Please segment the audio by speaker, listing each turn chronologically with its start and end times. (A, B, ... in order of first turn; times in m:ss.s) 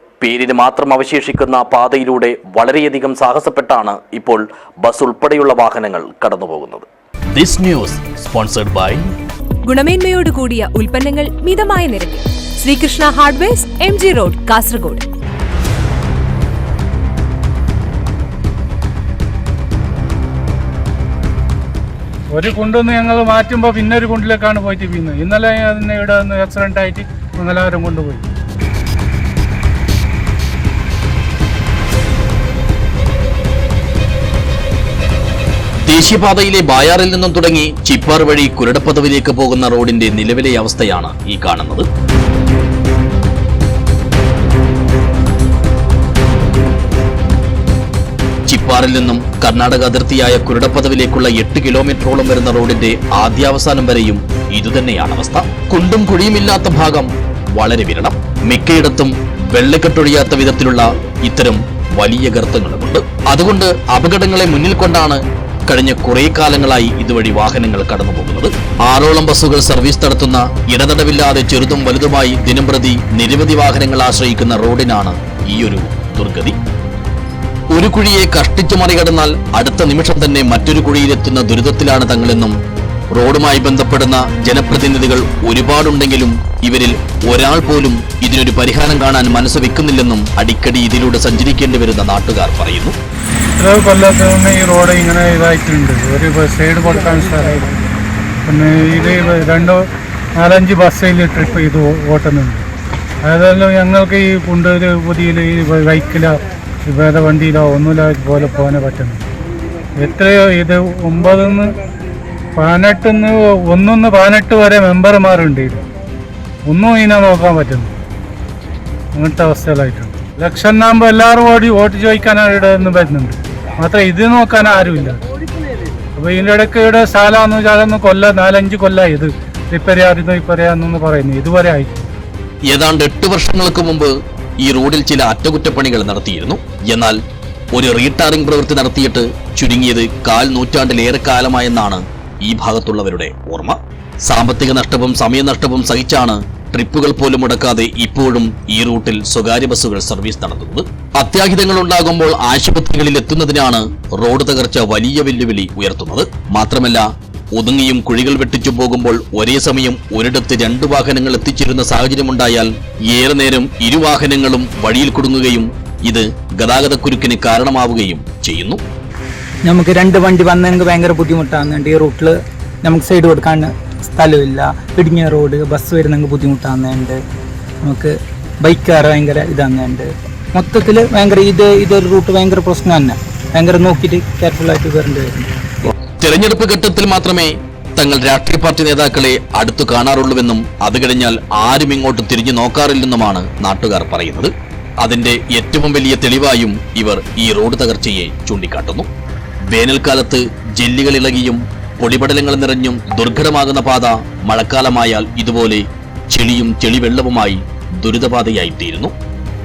0:00.2-0:09.0 A
0:09.6-0:15.0 B
0:22.3-0:28.2 C
0:35.8-0:41.8 A
0:48.5-1:16.6 A
1:17.7-1:22.5 A
1:23.1-1:32.9 A
1:33.6-1:37.8 C
1:38.4-1:39.8 C
1:40.4-1:42.6 C
1:43.2-1:49.2 C
1:50.0-1:51.7 C
1:52.6-1:55.8 C
1:56.7-1:57.9 C
1:59.1-2:05.2 C
2:06.2-2:11.9 C
2:12.7-2:17.2 A
2:17.7-2:48.8 A
2:49.6-2:57.2 D
2:57.8-3:05.4 D
3:05.8-3:19.1 A
3:19.7-3:29.1 A